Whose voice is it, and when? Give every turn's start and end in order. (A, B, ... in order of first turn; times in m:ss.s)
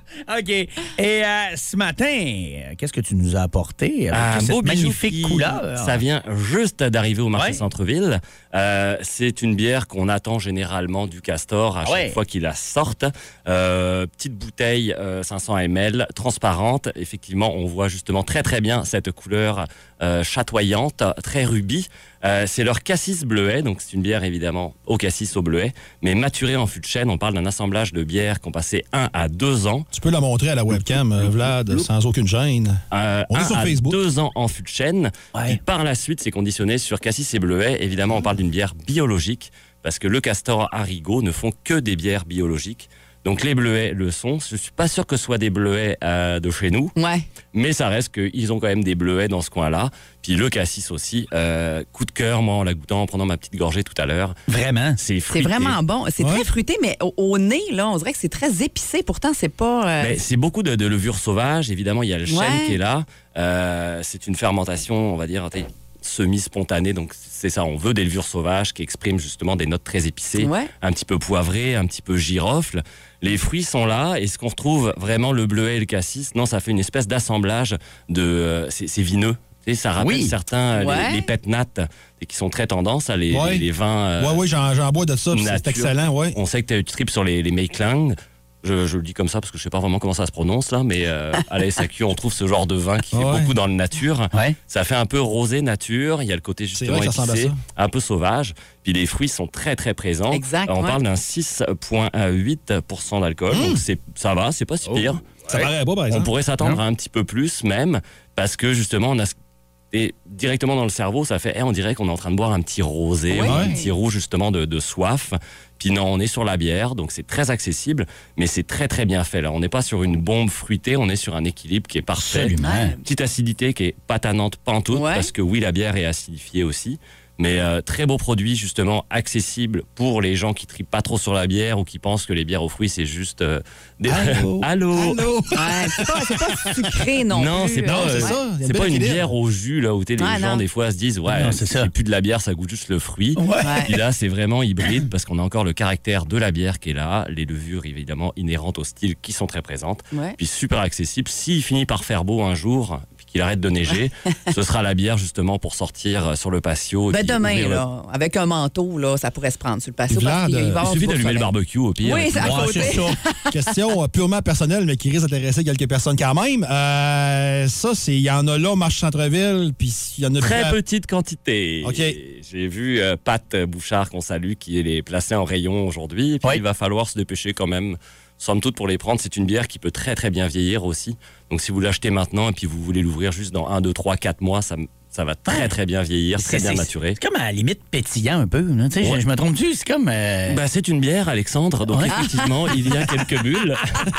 0:00.3-0:06.0 A
0:04.1-0:29.9 B
0:07.3-0:07.6 A
0:11.8-0:12.2 A
0:29.9-0:34.0 C
0:32.9-0:46.9 B
0:35.3-0:35.6 A
0:47.0-0:47.3 D
0:47.5-0:54.4 B
0:54.5-0:55.0 A
0:55.0-0:55.8 B
0:55.3-1:00.2 D
0:56.2-0:56.4 C
1:00.0-1:24.4 B
1:02.3-1:02.8 D
1:10.4-1:10.7 D
1:20.0-1:20.3 A
1:20.8-1:21.3 D
1:23.3-1:23.7 C
1:24.2-1:26.4 C
1:25.3-1:49.3 B
1:33.1-1:33.5 C
1:34.3-1:34.6 A
1:36.7-1:37.6 C
1:40.3-1:41.0 D
1:43.5-1:43.8 C
1:44.9-1:45.7 A
1:45.5-1:46.3 C
1:49.9-2:15.2 B
1:53.3-1:53.9 D
1:53.4-1:53.8 C
2:02.2-2:03.0 A
2:02.6-2:03.0 D
2:04.9-2:05.3 D
2:14.1-2:14.7 A
2:15.0-2:16.6 C
2:15.5-2:18.4 D
2:17.3-2:37.8 B
2:17.9-2:19.3 C
2:20.2-2:20.6 D
2:21.3-2:21.9 A
2:23.4-2:24.0 A
2:23.6-2:23.9 D
2:30.1-2:30.4 D
2:37.1-2:43.4 D
2:40.1-2:40.8 C
2:40.8-2:42.9 B
2:42.4-2:43.2 A
2:43.5-2:50.8 C
2:50.4-3:07.2 B
2:51.8-2:52.2 C
3:05.4-3:05.7 A
3:06.4-3:10.6 A
3:10.5-3:13.8 B
3:11.9-3:12.2 A
3:12.1-3:12.5 D